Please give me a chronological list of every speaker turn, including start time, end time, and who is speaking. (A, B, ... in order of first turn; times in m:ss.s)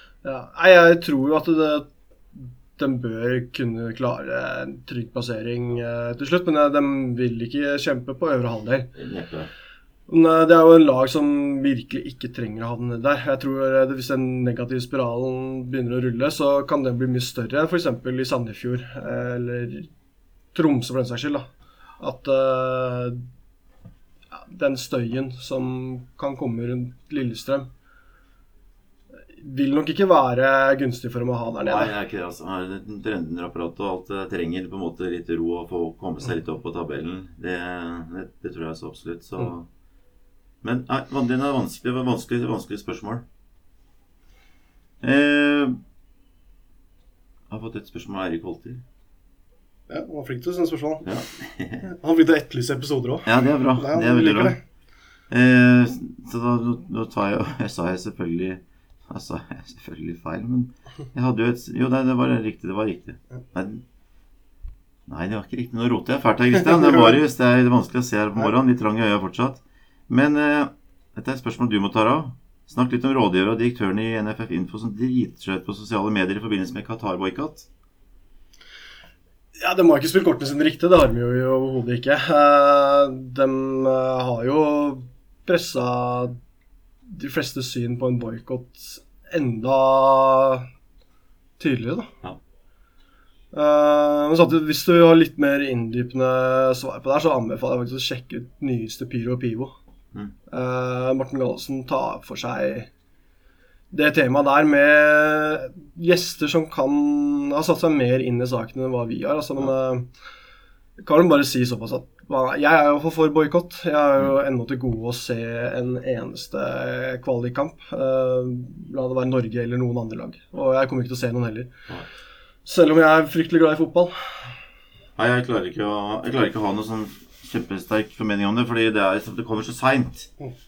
0:00.2-0:08.9 A
0:09.0-0:09.5 B
0:10.1-0:19.9 A
0:20.5-0:21.5 A
0:22.0-0:23.2 A
0:24.3-0:27.7 A
0:29.4-0:31.9 A
0:31.6-0:39.7 B
0:40.6-0:43.2 B
0:45.0-0:45.8 B
0:47.5-0:48.8 B
0:49.9-0:51.1 A
0:51.0-0:51.8 B
0:51.8-0:54.6 A
0:53.2-0:54.6 B
0:55.3-1:03.8 B
1:05.1-1:17.7 B
1:19.6-1:26.4 A
1:27.1-1:30.7 A
1:31.6-1:32.1 A
1:33.5-1:39.8 A
1:40.5-1:42.9 A
1:43.9-1:50.1 A
1:51.0-2:01.7 A
2:02.6-2:04.3 A
2:05.2-2:10.3 B